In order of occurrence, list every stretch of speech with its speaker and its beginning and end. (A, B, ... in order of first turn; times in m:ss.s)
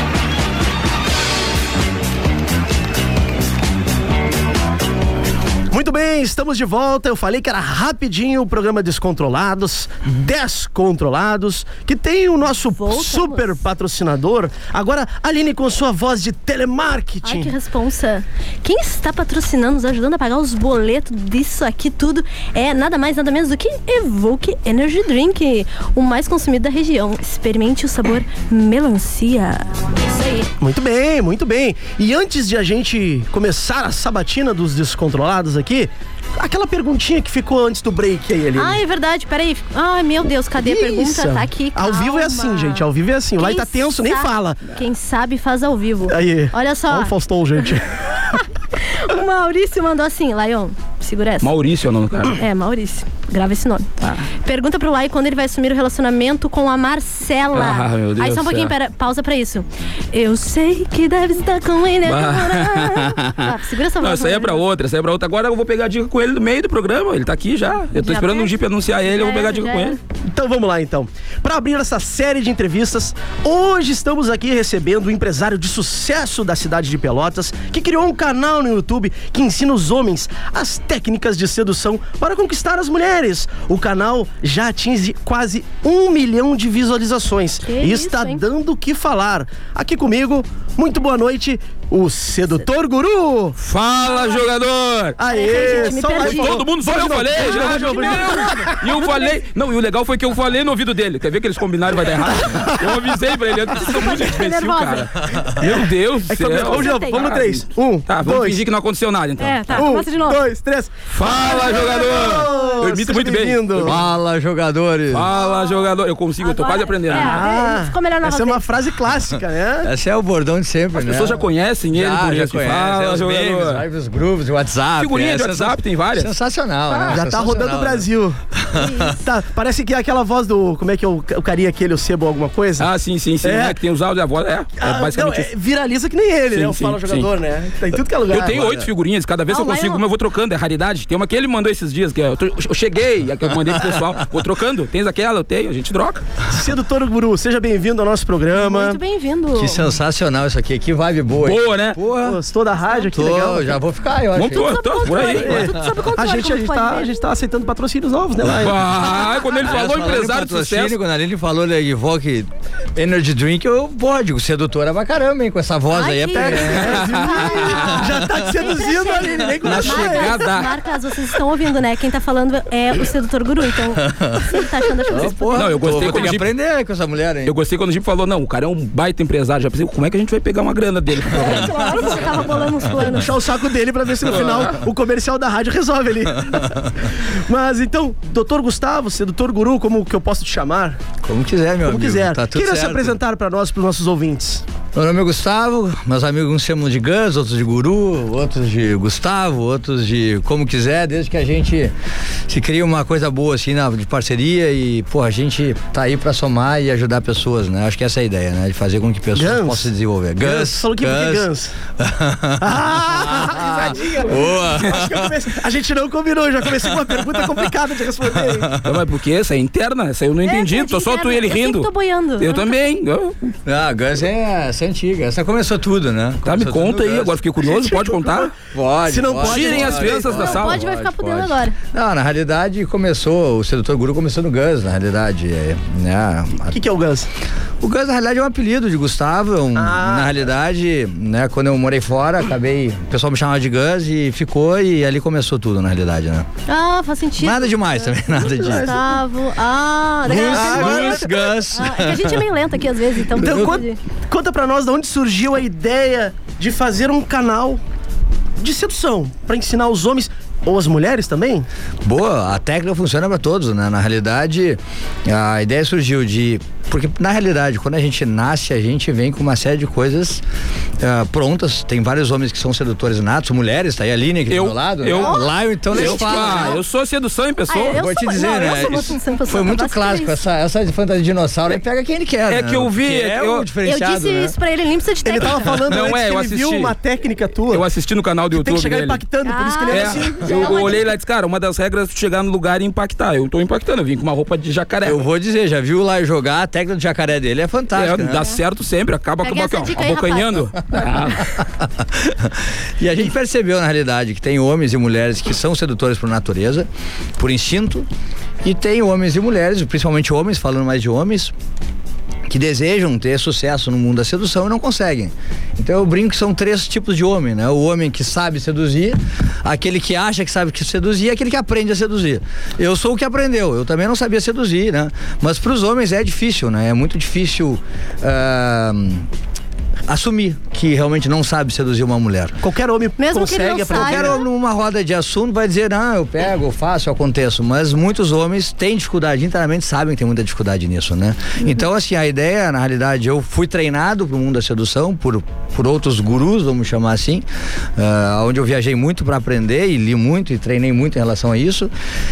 0:05.7-0:17.5 A
0:12.7-0:13.6 B
0:17.2-0:30.5 B
0:30.6-0:38.8 A
0:38.6-0:47.1 B
0:40.6-0:44.6 A
0:46.1-0:48.0 A
0:48.2-0:51.5 B
0:51.4-0:52.4 C
0:52.3-0:53.9 B
0:54.4-1:04.6 B
0:57.5-0:58.7 C
1:02.0-1:10.0 C
1:08.0-1:10.0 B
1:10.3-1:33.6 A
1:27.6-1:28.4 B
1:33.6-1:49.9 C
1:34.1-1:34.4 B
1:35.2-1:38.8 A
1:35.2-1:36.6 B
1:37.4-1:39.3 B
1:43.8-1:45.4 B
1:45.3-1:45.6 D
1:46.3-1:48.6 A
1:46.6-1:47.4 B
1:49.4-1:50.4 B
1:49.7-1:54.0 A
1:51.1-1:54.0 C
1:51.7-1:52.8 B
1:53.8-1:55.3 D
1:55.1-1:57.4 C
1:55.3-1:58.6 B
1:57.1-1:59.9 A
1:59.8-2:08.0 D
2:00.9-2:03.8 C
2:05.0-2:06.3 C
2:06.9-2:07.2 B
2:07.1-2:08.4 A
2:08.6-2:09.1 D
2:08.7-2:09.2 B
2:09.2-2:12.9 A
2:12.8-2:15.5 C
2:13.4-2:13.8 A
2:14.8-2:18.7 A
2:16.5-2:17.3 C
2:18.3-2:26.2 C
2:18.5-2:18.8 D
2:19.5-2:20.0 B
2:26.5-2:29.0 A
2:28.5-2:29.8 B
2:29.5-2:32.4 D
2:31.4-2:32.0 C
2:32.2-2:33.8 A
2:33.1-2:34.7 D
2:34.3-2:35.7 C
2:34.5-2:37.2 B
2:35.4-2:38.9 A
2:38.6-2:41.0 C
2:39.1-2:39.6 B
2:39.6-2:47.0 D
2:45.9-2:56.3 B
2:46.3-2:50.4 A
2:46.8-2:47.7 C
2:49.6-2:50.8 C
2:54.0-2:57.5 D
2:55.5-2:56.5 C
2:57.4-3:02.1 C
3:01.3-3:03.3 B
3:01.4-3:01.6 D
3:03.0-3:11.0 A
3:04.3-3:04.8 C
3:06.5-3:06.8 D
3:11.2-3:13.2 D
3:11.8-3:14.6 A
3:14.9-3:21.9 D
3:22.5-3:31.4 D
3:29.4-3:31.7 A
3:32.0-3:35.3 D
3:32.6-3:38.7 A
3:38.4-3:39.0 D
3:38.8-3:43.5 C
3:40.4-3:42.7 B
3:43.6-3:47.4 D
3:46.4-3:48.5 C
3:47.8-3:48.5 A
3:48.6-3:56.8 D
3:49.0-3:50.4 A
3:49.4-3:50.8 C
3:50.3-3:51.8 B
3:56.7-3:57.3 A
3:57.8-4:06.5 D
3:59.7-4:00.4 A
4:06.7-4:14.0 B
4:07.4-4:09.0 D
4:08.4-4:09.0 A
4:10.2-4:12.5 D
4:10.5-4:11.3 A
4:13.4-4:17.8 A
4:13.4-4:13.8 D
4:18.6-4:21.7 A
4:22.0-4:30.4 D
4:31.0-4:36.8 D
4:34.5-4:35.3 C
4:35.1-4:36.8 B
4:35.9-4:38.0 C
4:37.7-4:40.4 B
4:37.9-4:44.6 D
4:42.5-4:43.7 C
4:43.8-4:45.8 B
4:45.2-4:47.8 A
4:45.9-4:46.9 C
4:47.7-4:49.2 C
4:48.5-4:50.9 A
4:49.4-4:51.0 B
4:49.9-4:55.2 C
4:55.0-4:58.5 D
4:57.9-5:01.5 C
4:59.4-5:00.7 B
5:01.6-5:08.1 D
5:08.6-5:11.5 D
5:12.5-5:29.3 D
5:30.1-5:32.6 D
5:32.6-5:34.4 A
5:33.2-5:34.4 B
5:33.9-5:47.4 D
5:48.0-5:51.9 D